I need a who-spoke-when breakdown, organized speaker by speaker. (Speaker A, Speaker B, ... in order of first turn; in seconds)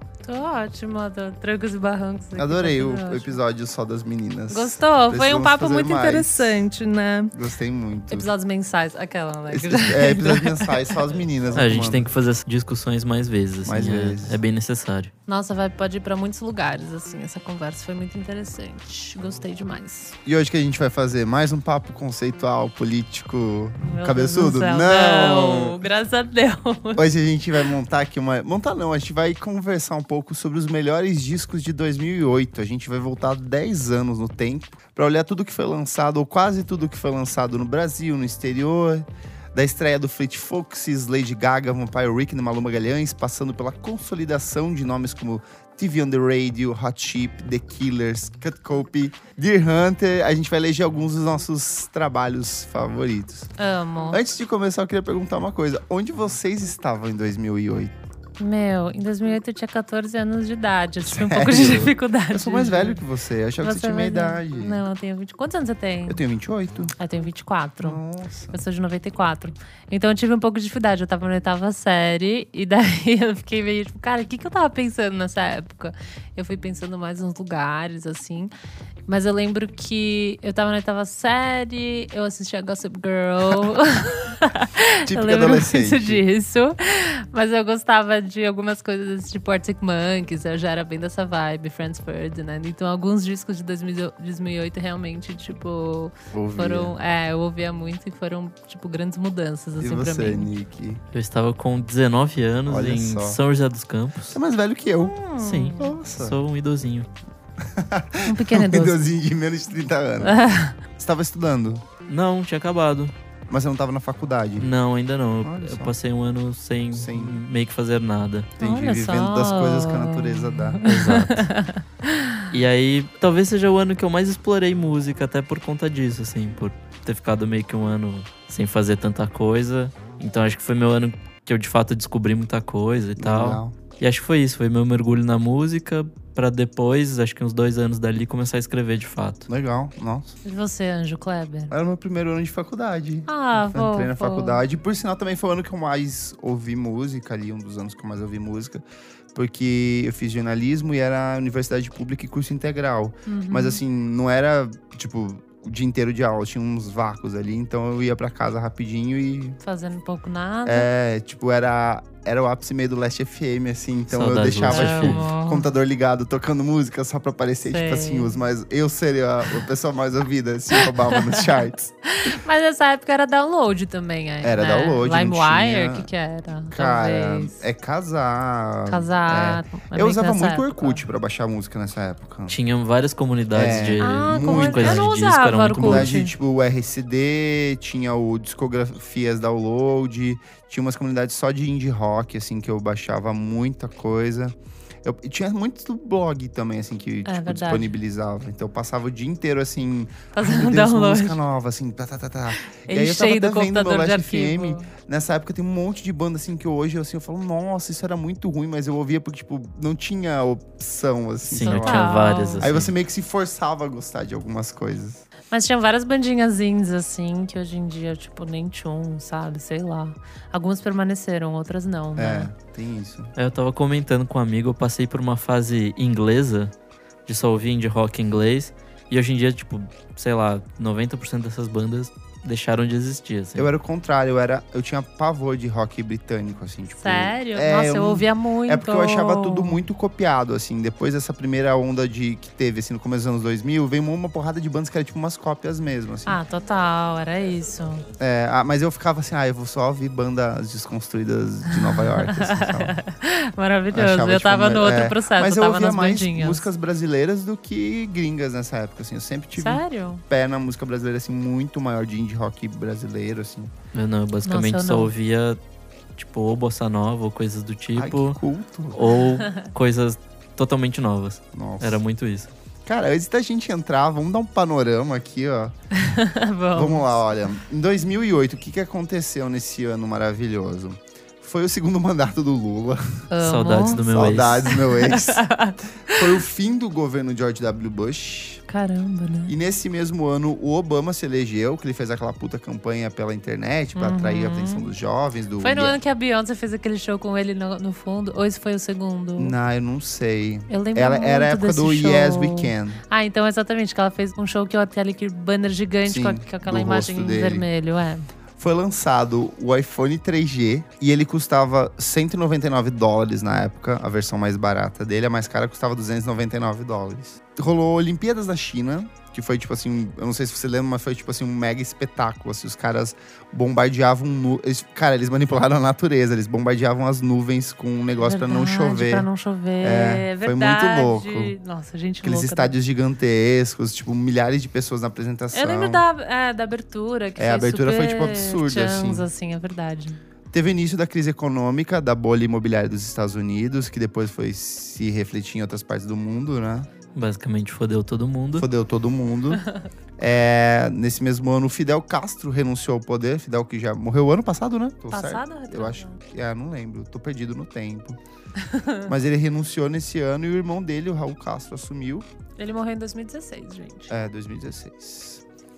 Speaker A: 0.3-3.4, 4.5-7.4, 8.1-11.1, 15.3-20.1, 23.8-27.1, 53.6-54.2, 58.4-63.0, 63.6-66.2, 67.0-68.0, 68.5-78.5, 79.1-100.5, 105.0-105.9, 108.2-109.0, 110.2-110.8, 118.6-122.5, 140.4-141.7, 143.3-144.6, 153.3-153.8, 159.6-160.9, 164.7-165.7, 167.7-168.4, 170.7-177.6, 178.9-181.0, 184.0-186.3, 197.2-197.9, 200.3-201.4, 202.6-204.9, 211.6-212.7, 215.5-222.5, 237.0-239.8, 246.3-248.1, 251.7-256.6, 259.6-260.2, 264.4-265.1, 275.9-277.1, 283.3-286.3, 288.7-289.5, 294.0-294.9, 295.6-299.6, 300.7-308.3, 328.2-332.7, 335.5-340.2, 355.1-356.2, 358.6-359.1, 362.6-364.1
Speaker B: 2.4-6.6, 7.3-8.3, 9.5-12.1, 13.7-14.4, 20.2-25.8, 27.0-53.5, 54.1-57.9, 61.0-64.8, 66.1-67.0, 67.8-68.6, 85.0-86.2, 96.3-97.0, 99.8-101.0, 102.7-103.4, 104.3-105.2, 105.8-106.4, 107.6-110.4, 111.0-111.8, 113.5-114.7, 115.4-116.0, 116.9-117.4, 118.6-121.0, 133.2-133.8, 139.5-140.3, 141.7-148.8, 149.3-159.6, 160.7-171.9, 174.4-176.1, 176.7-182.6, 183.5-185.1, 185.8-215.3, 222.2-223.3, 233.6-246.4, 248.2-253.0, 253.9-263.7, 267.9-269.1, 271.5-272.0, 272.9-275.8, 276.7-283.3, 283.9-285.4, 286.1-288.6, 289.5-296.0, 299.4-303.0, 306.1-307.7, 308.6-329.3, 329.8-331.6, 332.2-336.0, 337.4-339.3, 340.5-346.9, 348.6-349.6, 350.2-358.2, 359.1-362.3, 364.1-365.4
Speaker C: 11.6-15.1, 101.1-104.4, 105.4-107.1, 112.1-113.1, 114.6-118.5, 120.8-121.5, 122.5-139.5, 164.1-165.2, 182.5-186.1, 211.5-212.9, 223.4-226.7, 227.3-233.7, 263.9-265.6, 266.2-268.4, 268.9-272.5, 283.4-284.8, 347.1-348.7